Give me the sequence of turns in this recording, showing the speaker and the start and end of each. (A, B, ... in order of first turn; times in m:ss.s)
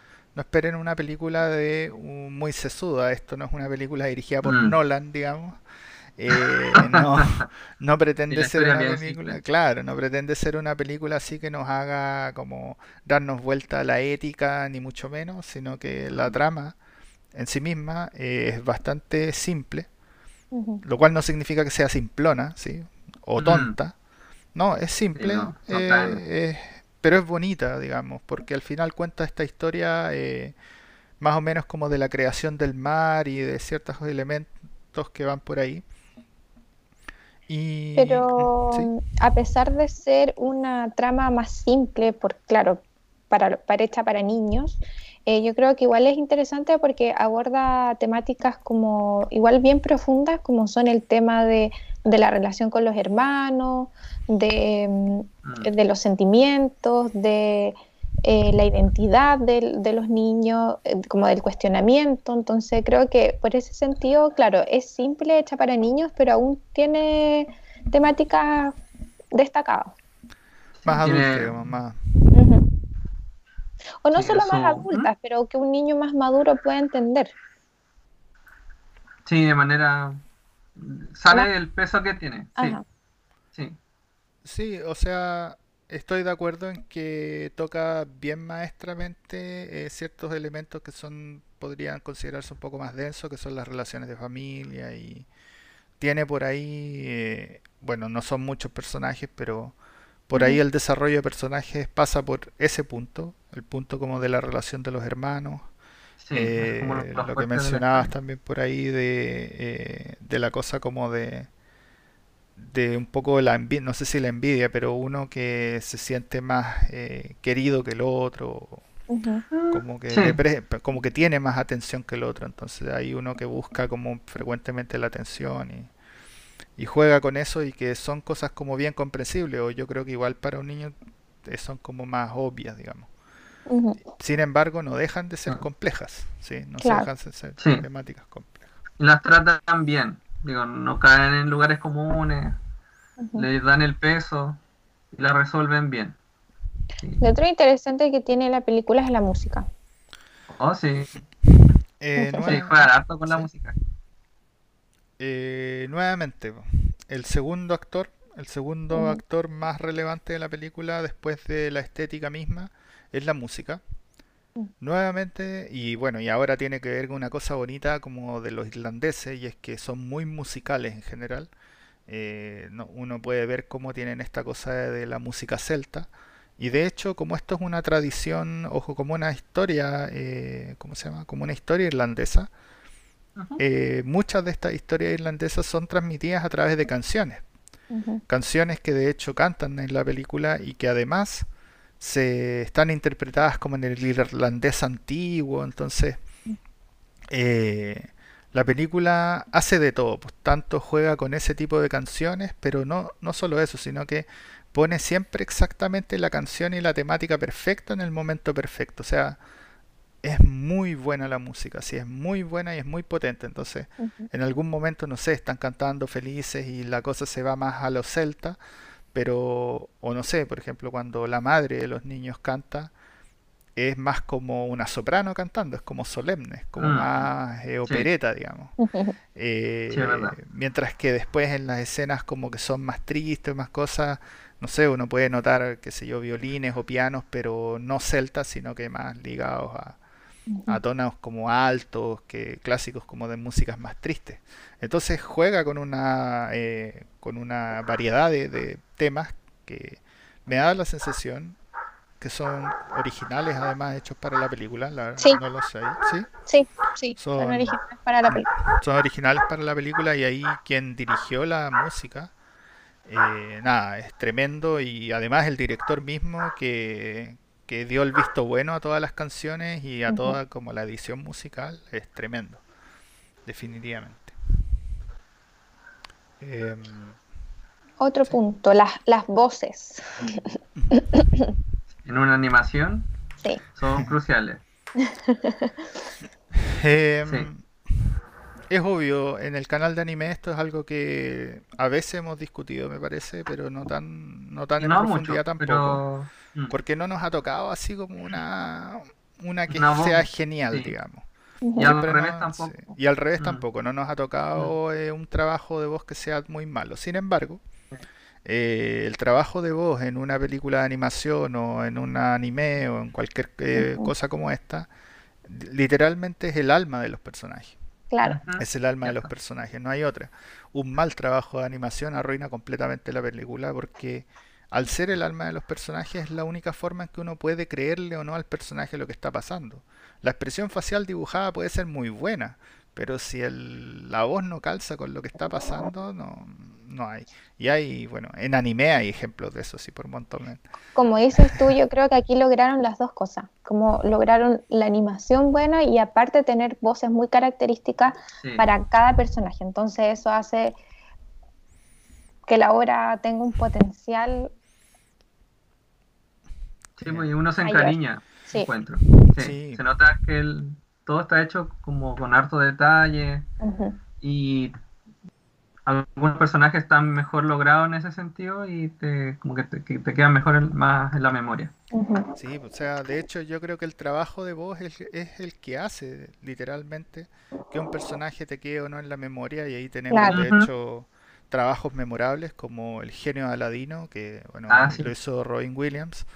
0:00.3-0:05.6 A
0:04.4-0:04.7 B
0:06.2-0:16.8 A
0:06.7-0:07.4 B
0:08.3-0:09.4 B
0:17.3-0:19.9 A
0:20.5-0:20.8 C
0:20.8-0:23.9 A
0:23.4-0:23.8 B
0:24.5-0:30.6 A
0:25.2-0:26.2 B
0:31.2-0:35.8 A
0:37.5-0:38.9 A
0:38.0-1:08.8 C
0:55.4-0:55.7 B
1:09.3-1:09.9 C
1:10.8-1:11.8 B
1:10.8-1:12.6 A
1:12.3-1:12.6 C
1:14.0-1:17.3 C
1:14.1-1:15.1 B
1:19.2-1:20.2 B
1:20.8-1:22.8 B
1:22.6-1:22.8 C
1:24.4-1:35.3 A
1:36.0-1:39.8 A
1:40.3-1:45.7 A
1:40.3-1:40.6 C
1:46.2-1:48.1 B
1:46.3-1:51.5 A
1:52.6-1:58.8 A
1:59.1-1:59.4 C
1:59.5-2:00.4 B
1:59.7-2:05.9 A
2:06.8-2:13.1 A
2:13.7-2:14.0 C
2:14.1-2:18.7 A
2:16.8-2:17.1 C
2:17.6-2:17.8 B
2:19.0-2:22.6 B
2:23.2-2:23.5 C
2:23.4-2:24.6 B
2:25.1-2:26.2 B
2:27.0-2:27.3 B
2:27.2-2:29.7 C
2:30.5-2:31.1 B
2:32.0-2:33.5 A
2:32.2-2:32.5 C
2:32.4-2:33.8 B
2:35.2-2:43.8 A
2:38.9-2:39.2 C
2:44.8-2:51.5 A
2:52.1-3:02.5 A
3:03.6-3:07.4 A
3:07.9-3:08.2 C
3:08.3-3:11.5 A
3:12.0-3:16.2 A
3:17.3-3:29.4 A
3:30.2-3:38.6 A
3:34.0-3:34.3 C
3:39.1-3:42.9 A
3:43.8-3:48.7 A
3:46.8-3:47.3 B
3:48.8-3:49.2 C
3:49.3-4:00.0 A
3:49.9-3:50.4 B
4:00.5-4:00.8 C
4:00.7-4:11.6 A
4:12.2-4:16.3 A
4:16.5-4:18.5 C
4:17.2-4:17.8 A
4:18.3-4:22.3 A
4:23.0-4:32.6 A
4:30.1-4:30.4 C
4:33.4-4:34.3 A
4:36.4-4:37.2 A
4:38.0-4:41.5 C
4:42.0-4:43.1 B
4:43.7-4:44.6 B
4:45.0-4:45.7 C
4:46.5-4:48.2 A
4:48.7-4:56.0 A
4:54.8-4:56.7 B
4:56.7-5:01.2 A
4:59.7-5:00.9 B
5:01.6-5:01.9 C
5:01.8-5:03.6 B
5:01.8-5:07.6 A
5:08.4-5:14.9 A
5:13.7-5:14.1 C
5:15.4-5:17.8 A
5:18.1-5:18.4 C
5:18.2-5:19.3 B
5:18.6-5:40.6 A
5:40.9-5:50.8 C
5:41.4-5:41.6 A
5:52.5-5:54.5 C
5:57.0-6:03.5 B
5:57.6-5:58.0 C
5:59.3-5:59.8 A
6:03.6-6:04.0 C
6:04.2-6:04.7 B
6:05.8-6:11.7 B
6:11.9-6:12.3 C
6:12.4-6:26.3 A
6:20.1-6:20.4 C
6:20.3-6:20.7 B
6:24.7-6:25.1 B